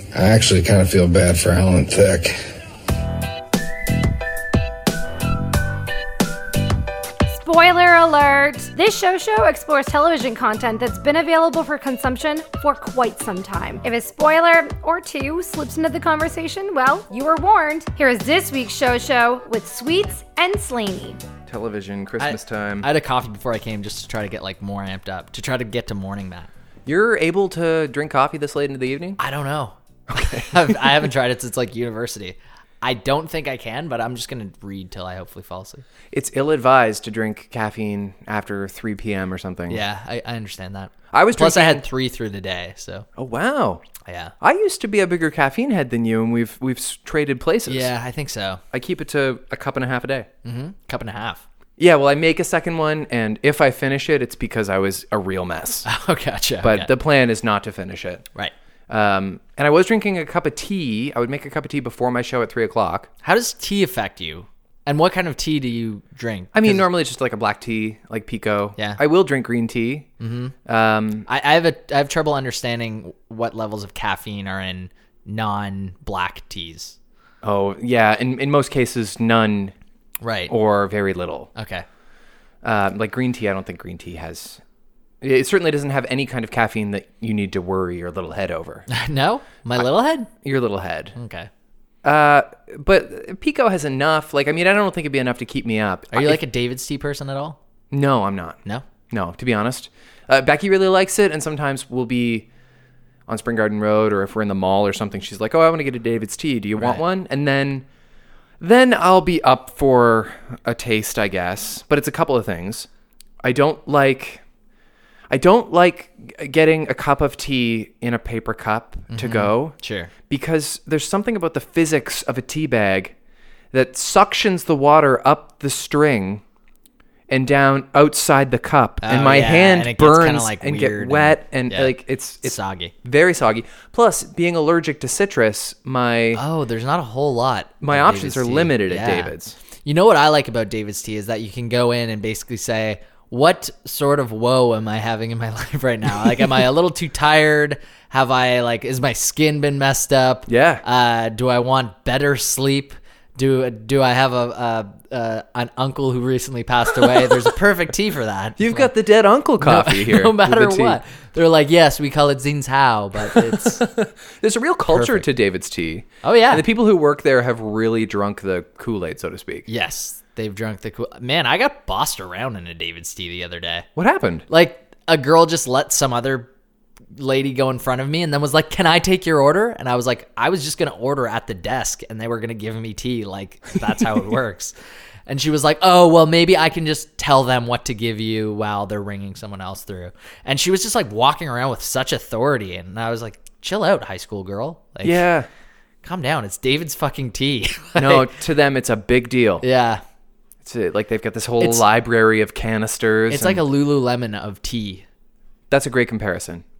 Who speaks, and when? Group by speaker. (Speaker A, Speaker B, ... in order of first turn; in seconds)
Speaker A: 0.1-2.4
Speaker B: 7.3-21.2
Speaker C: 21.5-22.9, 26.9-29.2, 30.1-31.0, 36.1-39.8, 41.1-41.9, 43.2-43.8, 44.4-47.9, 48.7-50.3, 51.8-55.9, 56.6-58.3, 58.9-63.1, 66.5-70.1, 70.7-71.3, 77.4-79.8, 80.5-81.5, 82.6-84.6, 85.2-88.9, 89.8-91.2, 92.0-96.4, 97.9-102.5, 103.3-107.9, 108.6-112.9, 113.4-114.4, 115.3-119.8, 120.3-123.1, 123.7-126.4, 127.3-136.4, 137.8-139.6, 150.5-150.8, 158.6-161.0, 163.2-169.7, 174.0-174.4, 195.0-195.5, 197.9-199.6, 200.6-203.6, 205.7-206.6
Speaker D: 22.2-26.5, 29.2-35.8, 39.7-43.1, 44.0-44.3, 47.7-48.6, 50.5-51.4, 55.9-56.9, 63.2-66.9, 70.2-70.5, 71.3-77.0, 80.2-80.5, 81.6-81.9, 88.9-90.3, 91.2-91.5, 96.1-97.6, 119.1-120.1, 129.0-132.9, 136.3-158.9, 159.6-163.8, 164.9-165.3, 166.2-166.7, 169.7-173.9, 174.5-176.5, 177.2-184.7, 185.3-195.2, 196.0-198.3, 199.6-200.0, 203.3-205.1